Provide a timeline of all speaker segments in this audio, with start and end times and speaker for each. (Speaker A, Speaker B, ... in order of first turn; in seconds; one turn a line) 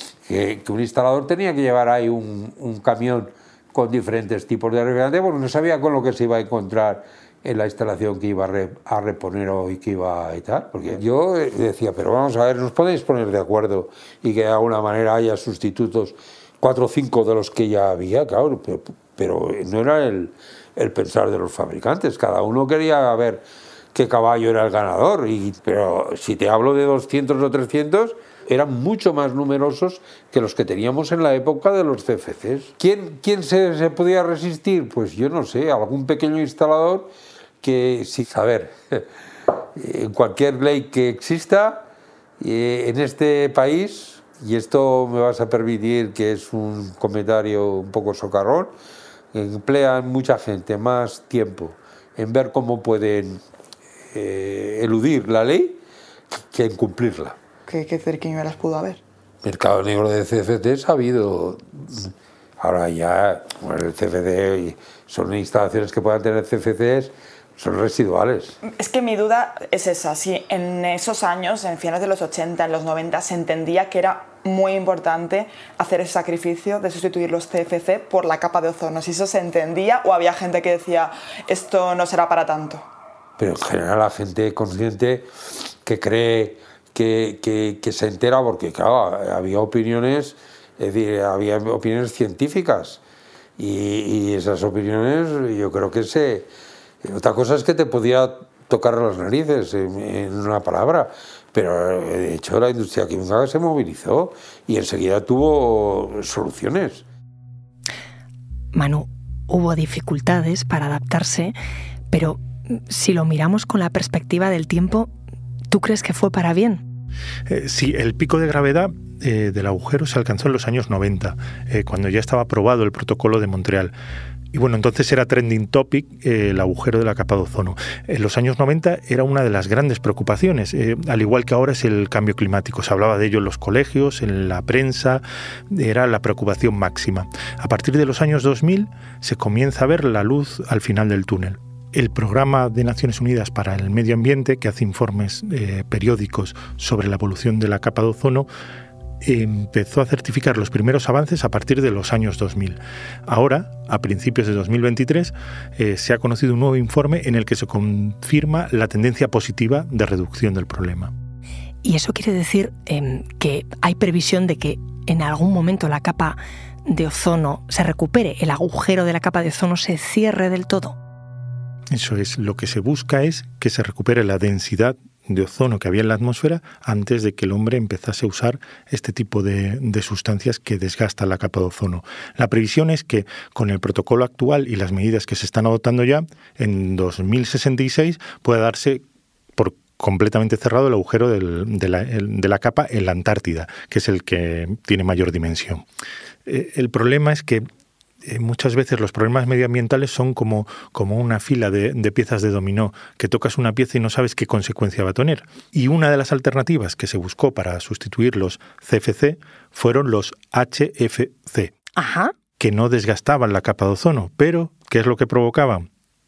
Speaker A: 0.3-39.1
Speaker A: 39.8-41.9
Speaker A: 42.4-48.7
Speaker A: 49.3-53.4
Speaker A: 54.1-55.8
Speaker A: 56.4-57.4
Speaker B: 57.7-59.0
Speaker A: 59.4-68.6
Speaker B: 68.7-82.8
Speaker A: 83.4-85.3
Speaker A: 85.8-93.0
Speaker A: 93.6-96.5
Speaker A: 97.0-107.0
Speaker C: 108.7-111.6
Speaker C: 112.1-115.1
Speaker C: 115.7-116.8
Speaker D: 117.5-123.9
Speaker D: 124.5-148.5
Speaker D: 149.2-161.1
Speaker C: 161.8-171.0
Speaker D: 171.9-189.0
Speaker D: 189.6-195.8
Speaker D: 196.5-197.7
Speaker D: 198.2-211.7
Speaker C: 212.0-212.3
Speaker D: 212.6-215.9